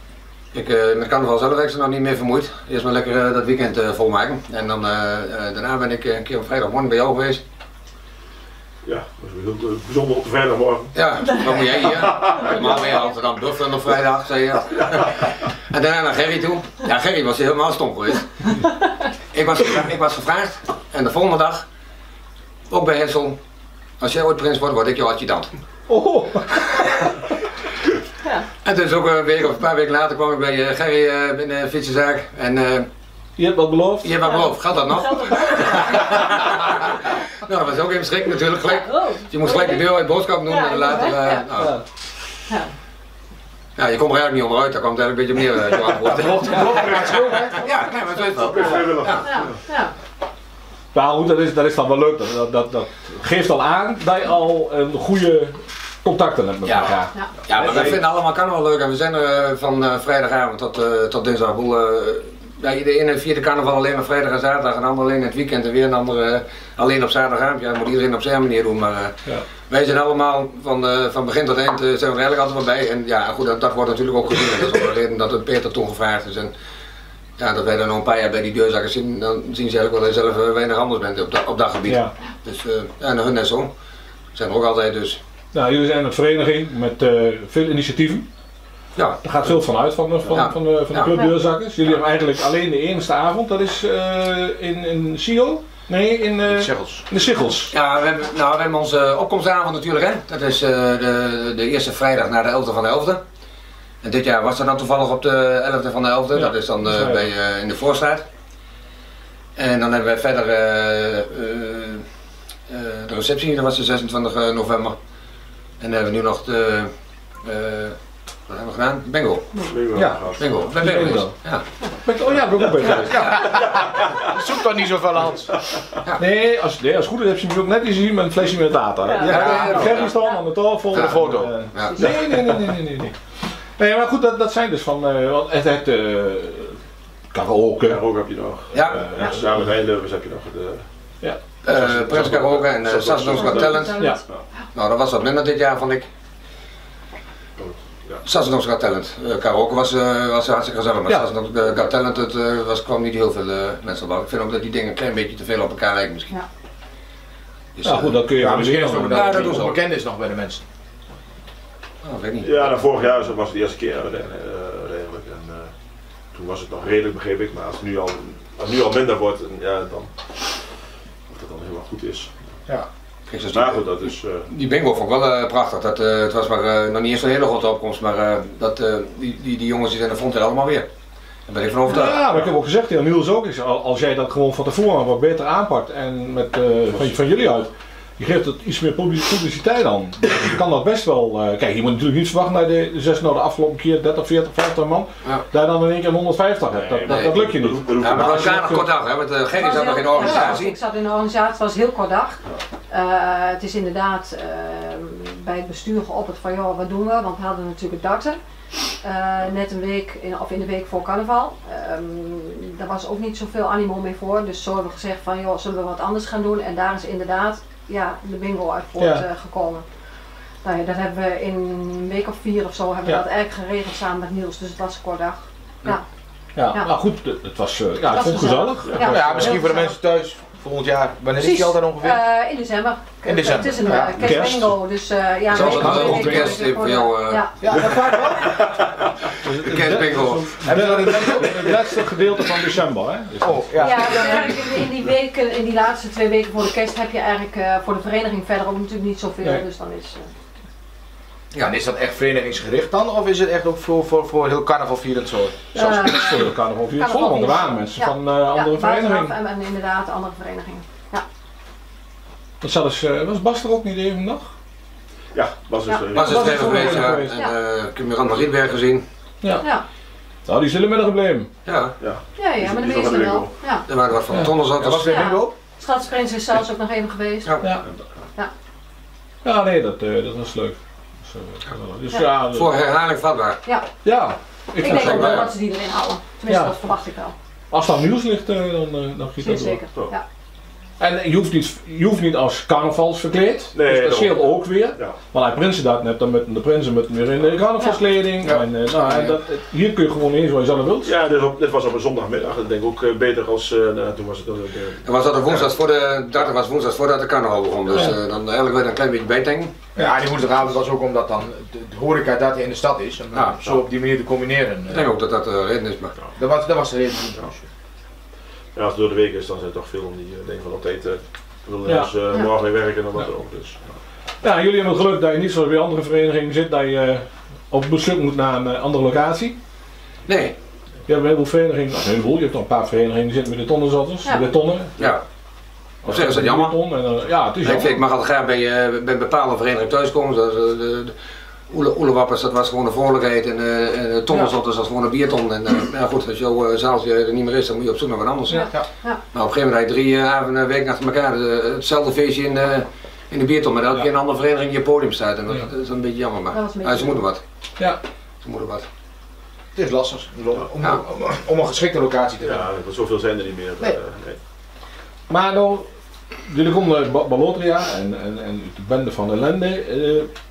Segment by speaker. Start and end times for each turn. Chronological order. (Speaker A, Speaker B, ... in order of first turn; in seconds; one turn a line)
Speaker A: 0.5-7.4
Speaker B: 8.8-10.9
Speaker A: 10.9-18.4
Speaker B: 11.8-12.8
Speaker C: 12.2-12.6
Speaker A: 19.3-21.6
Speaker A: 22.7-23.4
Speaker A: 24.0-25.5
Speaker D: 25.9-27.1
Speaker A: 28.6-32.9
Speaker D: 33.4-34.1
Speaker A: 34.0-41.8
Speaker C: 34.2-36.7
Speaker C: 38.6-39.9
Speaker C: 40.5-41.4
Speaker D: 41.5-41.8
Speaker A: 43.8-49.3
Speaker E: 46.0-47.6
Speaker D: 46.5-46.9
Speaker B: 48.4-49.5
Speaker C: 49.2-49.9
Speaker D: 50.9-58.0
Speaker A: 56.6-56.9
Speaker A: 57.5-76.5
Speaker A: 77.4-83.7
Speaker A: 84.3-85.2
Speaker D: 85.5-88.2
Speaker A: 88.9-89.2
Speaker D: 89.2-97.7
Speaker A: 90.3-91.3
Speaker E: 96.4-97.0
Speaker A: 97.7-103.2
Speaker A: 104.0-108.2
Speaker D: 106.4-107.2
Speaker A: 109.5-112.0
Speaker A: 112.7-115.0
Speaker A: 115.8-116.9
Speaker A: 117.4-118.0
Speaker A: 118.5-119.5
Speaker B: 119.6-121.1
Speaker D: 119.9-121.3
Speaker A: 120.4-121.6
Speaker D: 122.0-123.4
Speaker B: 122.9-124.3
Speaker A: 122.9-123.5
Speaker E: 123.1-125.5
Speaker D: 126.2-136.8
Speaker C: 129.0-130.1
Speaker A: 129.2-130.1
Speaker E: 129.2-129.9
Speaker E: 130.9-131.5
Speaker A: 130.9-132.2
Speaker C: 131.8-132.2
Speaker D: 137.3-138.0
Speaker B: 137.8-140.9
Speaker A: 138.7-139.0
Speaker A: 141.6-144.1
Speaker B: 141.6-144.4
Speaker C: 143.3-144.2
Speaker A: 144.7-146.1
Speaker B: 147.6-148.2
Speaker A: 148.2-156.3
Speaker A: 157.8-159.8
Speaker D: 157.8-159.6
Speaker E: 158.3-160.6
Speaker A: 162.0-162.8
Speaker B: 162.4-165.7
Speaker B: 166.3-170.6
Speaker B: 171.3-172.4
Speaker A: 173.3-180.9
Speaker B: 173.5-174.5
Speaker A: 181.5-182.2
Speaker D: 181.9-198.8
Speaker B: 186.9-187.2
Speaker B: 196.7-198.9
Speaker A: 198.0-200.8
Speaker C: 199.5-208.4
Speaker D: 200.2-200.6
Speaker C: 209.0-219.9
Speaker D: 219.0-219.2
Speaker C: 220.6-226.0
Speaker D: 226.5-229.0
Speaker C: 228.1-229.9
Speaker B: 228.8-229.5
Speaker E: 228.9-232.2
Speaker C: 231.4-237.6
Speaker E: 233.2-234.3
Speaker D: 234.1-234.8
Speaker D: 235.5-236.6
Speaker A: 235.5-237.4
Speaker E: 237.6-238.6
Speaker D: 239.4-244.3
Speaker A: 239.6-240.6
Speaker E: 240.6-241.8
Speaker E: 243.4-244.6
Speaker C: 243.8-250.3
Speaker E: 251.6-255.7
Speaker C: 255.7-261.2
Speaker D: 255.8-259.4
Speaker D: 262.6-264.5
Speaker B: 265.3-267.1
Speaker A: 266.1-269.0
Speaker D: 266.1-267.3
Speaker C: 267.2-267.5
Speaker D: 269.4-269.7
Speaker C: 269.6-269.9
Speaker D: 270.4-271.5
Speaker A: 271.6-271.9
Speaker B: 272.0-273.5
Speaker C: 272.4-273.9
Speaker A: 273.9-275.2
Speaker D: 274.3-275.5
Speaker C: 275.0-277.6
Speaker D: 279.4-282.7
Speaker A: 282.4-283.6
Speaker D: 284.0-285.5
Speaker C: 284.8-287.3
Speaker A: 284.8-285.5
Speaker D: 286.5-286.7
Speaker D: 287.7-289.8
Speaker C: 289.4-290.2
Speaker D: 291.0-301.1
Speaker B: 293.7-295.2
Speaker B: 301.0-305.1
Speaker A: 305.0-309.8
Speaker E: 309.9-315.1
Speaker A: 313.3-313.6
Speaker A: 314.9-316.1
Speaker E: 316.4-317.6
Speaker B: 318.8-323.8
Speaker D: 321.9-322.1
Speaker D: 324.4-329.6
Speaker A: 330.3-330.6
Speaker D: 331.1-335.0
Speaker A: 335.0-335.2
Speaker D: 336.0-338.0
Speaker A: 336.0-336.8
Speaker A: 337.6-341.1
Speaker A: 341.7-348.7
Speaker C: 348.5-349.2
Speaker A: 349.3-357.4
Speaker C: 356.5-357.2
Speaker A: 358.4-358.9
Speaker E: 359.8-362.6
Speaker B: 362.4-364.4
Speaker D: 365.3-365.9
Speaker D: 366.5-370.3